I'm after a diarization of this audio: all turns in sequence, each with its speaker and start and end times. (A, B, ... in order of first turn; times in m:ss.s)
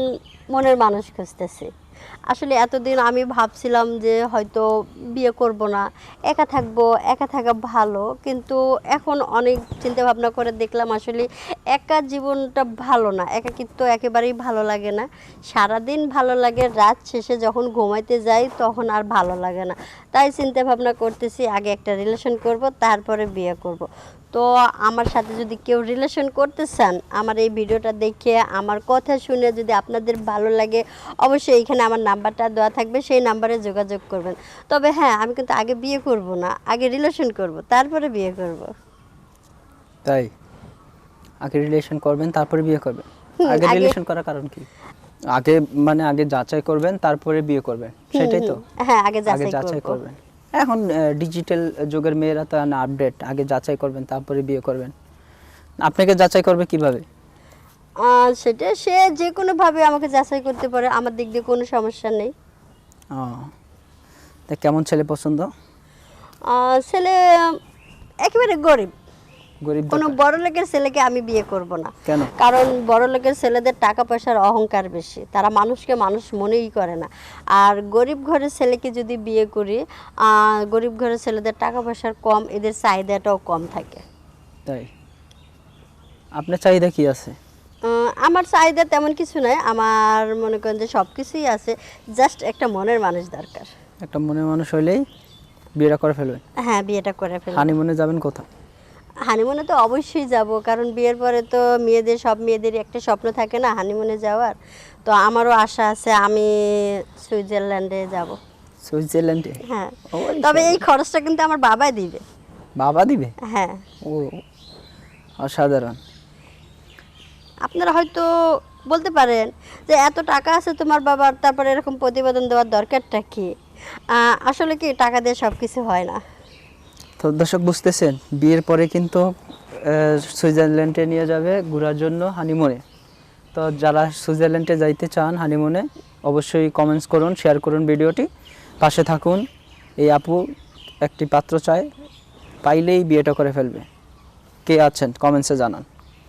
0:00.5-0:01.7 A
0:02.3-0:04.6 A
0:05.2-0:38.7 A
0:40.0-0:40.3 B
0:41.4-0:44.7 B
0:43.4-0:44.0 A
0:45.3-0:48.6 B
0:48.1-0:50.0 A
0:49.3-0:54.9 B
0:55.8-0:57.0 B
0:58.0-1:02.3 A
1:03.1-1:03.5 B
1:04.5-1:05.5 B
1:06.5-1:07.2 A
1:08.3-1:08.9 A
1:09.6-1:10.2 B
1:09.9-1:24.0 A
1:12.1-1:12.3 B
1:26.4-1:27.4 B
1:27.9-1:33.7 A
1:34.0-1:35.0 B
1:35.8-1:36.4 B
1:36.7-1:37.7 A
1:37.5-1:38.5 B
1:39.3-1:44.6 A
1:45.1-1:46.5 A
1:47.2-1:48.4 A
1:48.8-1:50.8 B
1:49.7-1:52.2 A
1:52.8-1:53.3 B
1:53.5-1:53.8 A
1:54.0-1:54.4 B
1:55.4-1:56.0 B
1:57.7-1:58.3 A
1:58.9-2:03.5 A
2:04.1-2:06.2 A
2:07.2-2:09.3 B
2:09.8-2:12.8 B
2:13.5-2:18.3 B
2:18.8-2:19.4 B
2:20.0-2:20.4 B
2:21.0-2:21.9 B
2:22.6-2:23.9 B
2:24.7-2:25.9 B